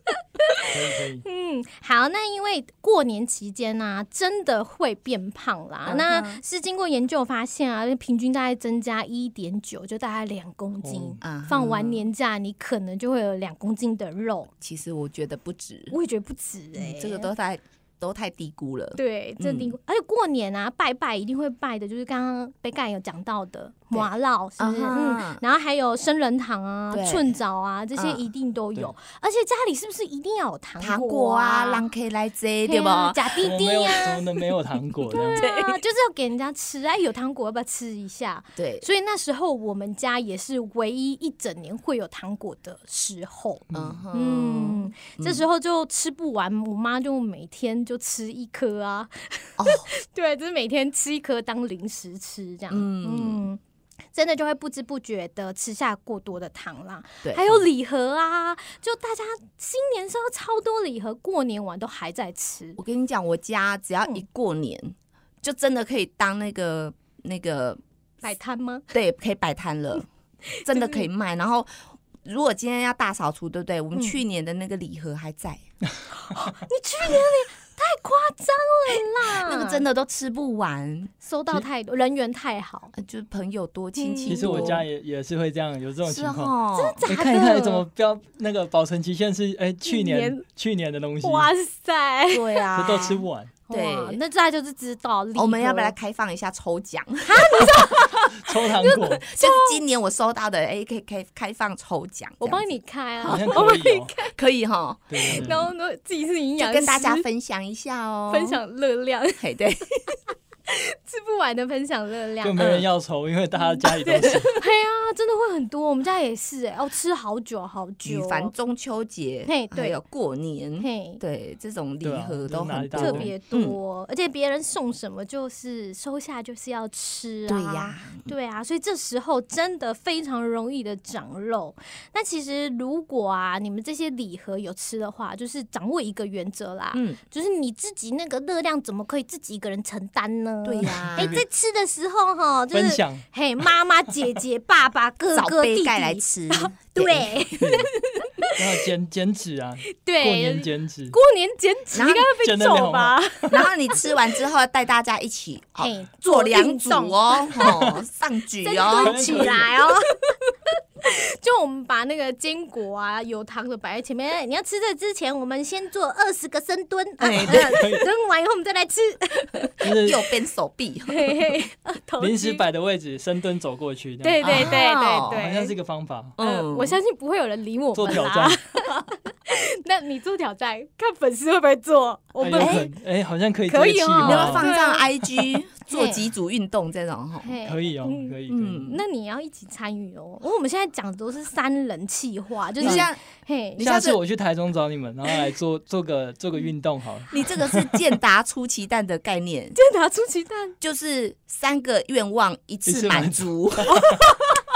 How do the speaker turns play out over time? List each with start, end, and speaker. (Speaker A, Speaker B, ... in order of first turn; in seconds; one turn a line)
Speaker A: 0.2-14.5
Speaker B: 0.6-1.2
Speaker C: 5.8-6.4
Speaker B: 10.8-11.2
Speaker C: 11.2-12.1
Speaker C: 14.6-15.9
Speaker A: 15.9-17.3
Speaker C: 16.7-19.8
Speaker A: 18.9-31.9
Speaker C: 23.9-25.4
Speaker C: 26.9-27.4
Speaker C: 27.9-28.2
Speaker C: 30.8-33.5
Speaker A: 32.6-34.4
Speaker B: 33.4-35.4
Speaker A: 35.1-53.6
Speaker C: 35.3-35.8
Speaker C: 38.6-38.9
Speaker C: 43.7-45.4
Speaker C: 49.6-49.9
Speaker C: 52.7-53.5
Speaker A: 54.1-62.8
Speaker C: 62.8-67.8
Speaker A: 68.2-68.9
Speaker C: 68.9-70.0
Speaker A: 70.5-71.1
Speaker C: 70.6-75.6
Speaker A: 73.9-74.2
Speaker A: 76.2-79.8
Speaker C: 78.9-81.1
Speaker A: 81.2-82.9
Speaker C: 82.9-84.8
Speaker A: 84.0-84.8
Speaker B: 84.3-86.5
Speaker C: 86.0-87.0
Speaker A: 86.7-87.8
Speaker B: 87.1-91.5
Speaker A: 89.8-90.4
Speaker A: 91.2-92.7
Speaker C: 92.3-94.2
Speaker B: 92.7-93.5
Speaker A: 93.7-95.9
Speaker C: 95.3-98.3
Speaker A: 97.2-98.1
Speaker B: 98.3-99.2
Speaker A: 98.8-99.8
Speaker C: 99.3-103.8
Speaker A: 102.4-104.3
Speaker B: 103.2-104.1
Speaker C: 104.3-105.6
Speaker B: 105.1-105.7
Speaker A: 105.2-107.2
Speaker C: 106.6-108.6
Speaker A: 108.3-109.4
Speaker C: 109.4-110.1
Speaker A: 110.7-112.7
Speaker B: 112.4-114.6
Speaker C: 112.6-112.8
Speaker A: 113.7-118.5
Speaker C: 118.0-123.8
Speaker A: 119.5-120.0
Speaker A: 120.8-121.2
Speaker B: 122.0-123.3
Speaker A: 123.0-148.5
Speaker C: 127.5-128.3
Speaker C: 136.9-137.2
Speaker C: 140.6-141.4
Speaker B: 142.7-143.2
Speaker C: 145.3-147.7
Speaker B: 147.6-147.9
Speaker B: 148.5-151.2
Speaker A: 150.0-154.1
Speaker C: 151.9-152.3
Speaker B: 152.4-153.3
Speaker C: 153.5-159.7
Speaker A: 155.8-157.7
Speaker B: 157.6-158.0
Speaker A: 158.6-160.2
Speaker B: 158.9-159.7
Speaker A: 161.0-169.8
Speaker C: 167.2-167.8
Speaker B: 167.4-168.1
Speaker B: 169.8-170.2
Speaker C: 169.8-171.6
Speaker A: 171.1-172.6
Speaker B: 172.2-176.3
Speaker A: 174.2-175.7
Speaker C: 174.4-175.5
Speaker C: 176.4-177.0
Speaker A: 176.4-182.9
Speaker B: 177.9-178.6
Speaker B: 182.4-184.7
Speaker C: 182.5-182.9
Speaker A: 183.7-185.1
Speaker C: 184.2-187.5
Speaker A: 185.9-186.3
Speaker A: 187.4-193.9
Speaker B: 187.6-188.8
Speaker C: 188.5-189.0
Speaker C: 192.8-193.2
Speaker C: 193.8-194.2
Speaker B: 193.8-197.9
Speaker C: 197.3-199.8
Speaker A: 199.7-200.8
Speaker C: 200.8-204.2
Speaker B: 202.8-204.2